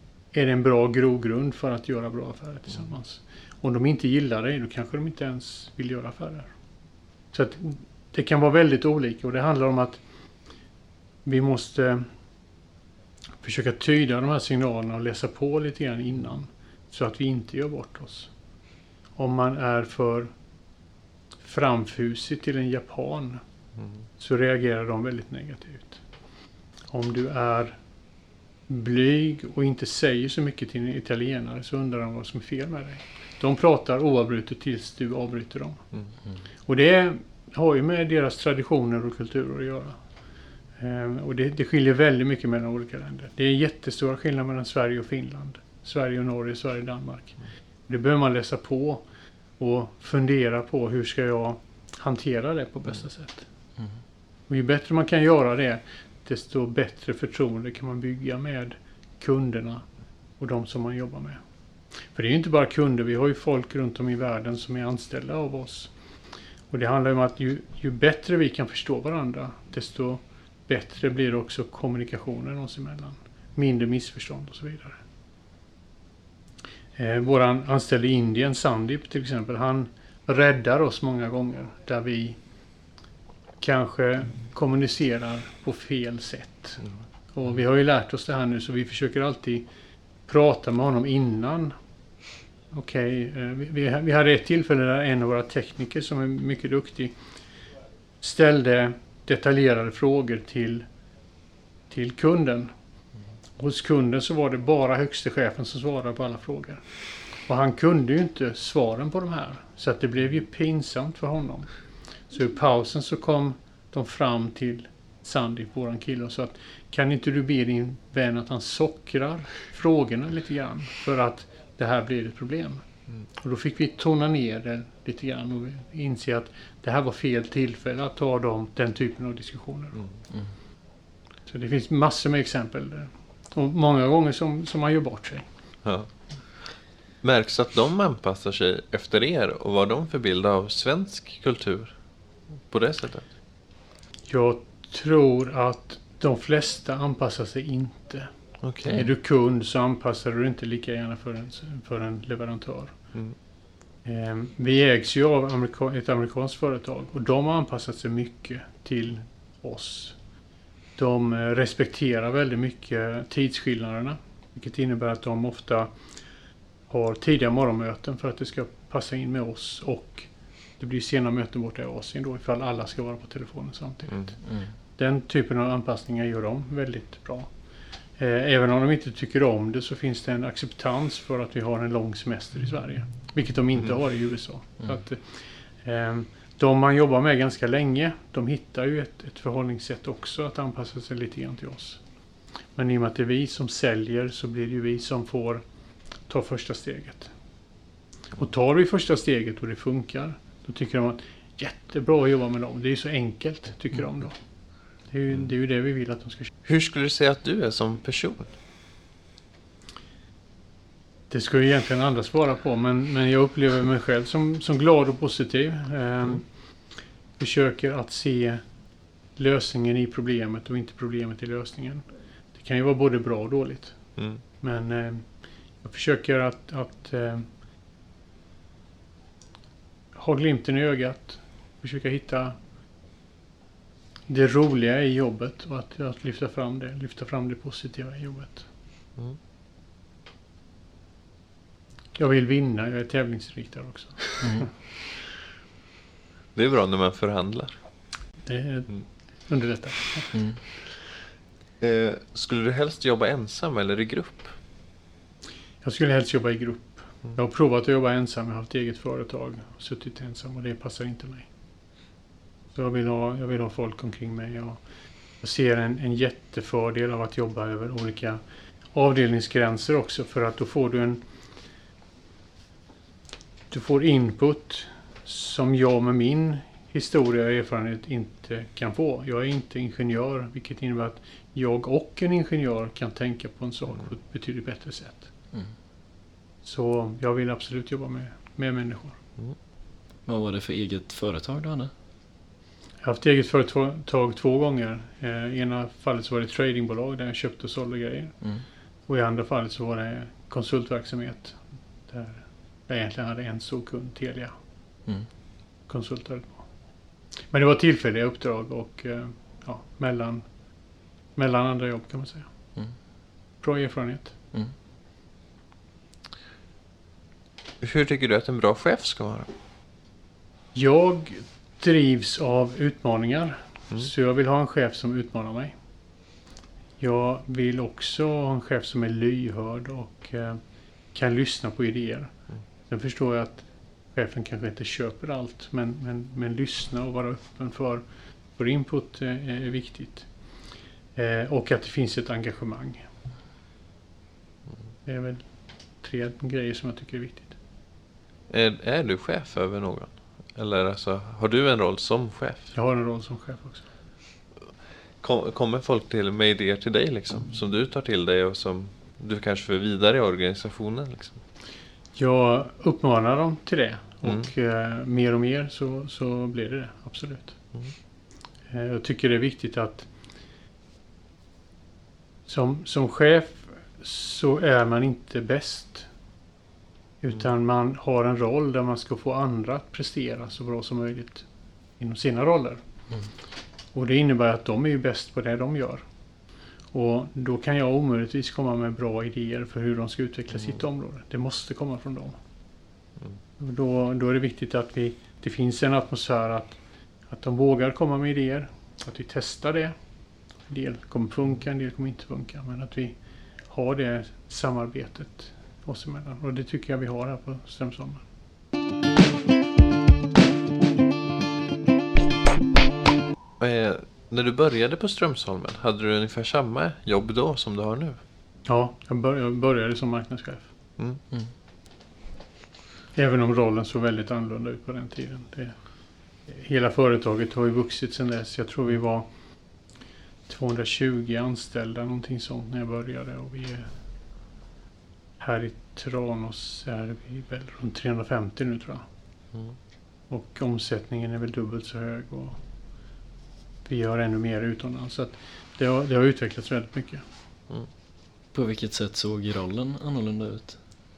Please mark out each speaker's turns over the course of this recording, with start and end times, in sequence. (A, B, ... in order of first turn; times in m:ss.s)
0:00.3-0:06.5 A
0:07.3-0:10.0 A
0:11.2-0:12.1 A
0:13.4-0:18.3 A
0:19.2-0:20.3 A
0:21.4-0:23.4 A
0:24.2-0:26.0 A
0:26.9-0:27.8 A
0:28.7-0:35.8 A
0:36.7-0:40.0 A
0:40.8-0:49.0 A
0:49.6-0:53.5 A
0:54.5-0:59.8 A
1:00.4-1:01.4 A
1:02.1-1:05.9 A
1:06.7-1:15.0 A
1:17.0-1:22.4 A
1:23.6-1:29.7 A
1:30.3-1:31.7 A
1:32.7-1:37.2 A
1:38.2-1:40.8 A
1:41.9-1:42.7 A
1:43.6-1:46.9 A
1:47.4-1:51.7 A
1:52.3-2:10.0 A
2:11.5-2:15.5 A
2:15.8-2:21.9 B
2:22.7-2:23.2 B
2:24.3-2:28.3 A
2:28.6-2:29.1 B
2:28.9-2:33.0 A
2:34.0-2:40.2 A
2:41.0-2:45.9 A
2:46.9-2:54.4 A
2:55.0-2:57.5 A
2:58.2-3:12.0 A
3:12.7-3:15.6 A
3:16.3-3:17.3 A
3:18.4-3:24.4 A
3:25.1-3:26.5 A
3:26.6-3:28.5 B
3:31.3-3:36.5 A
3:37.4-3:38.6 A
3:39.4-3:44.0 A
3:44.6-3:45.3 A
3:45.8-3:47.5 A
3:50.1-3:52.6 A
3:54.3-3:58.7 A
4:02.2-4:04.7 A
4:04.4-4:04.7 C
4:06.5-4:07.8 B
4:08.4-4:10.4 A
4:10.3-4:10.6 C
4:11.8-4:14.5 B
4:15.8-4:21.5 A
4:22.7-4:24.8 A
4:25.4-4:28.4 A
4:28.9-4:31.2 A
4:33.7-4:45.3 A
4:46.6-4:49.2 A
4:50.2-4:51.9 C
4:53.0-4:58.4 A
4:59.1-5:04.5 A
5:05.9-5:06.6 A
5:07.5-5:10.5 A
5:11.3-5:12.5 A
5:13.6-5:14.4 A
5:17.8-5:19.5 B
5:20.7-5:25.7 A
5:27.0-5:30.6 A
5:31.1-5:32.3 A
5:32.9-5:38.0 A
5:38.6-5:40.3 A
5:41.1-5:43.0 A
5:45.0-5:45.5 A
5:46.0-5:47.6 A
5:48.5-5:52.7 B
5:52.7-5:53.8 A
5:55.2-6:01.4 B
6:02.2-6:07.6 A
6:08.7-6:10.1 A
6:12.5-6:16.1 A
6:17.2-6:21.5 A
6:22.0-6:22.8 A
6:23.9-6:26.0 A
6:26.9-6:32.4 A
6:33.6-6:39.9 A
6:40.6-6:43.2 A
6:43.7-6:48.2 A
6:53.6-6:58.2 B
6:58.6-7:00.7 A
7:03.1-7:05.8 A
7:06.5-7:09.3 A
7:10.5-7:13.9 A
7:15.4-7:19.0 A
7:20.3-7:22.6 A
7:23.8-7:27.2 A
7:28.5-7:30.8 C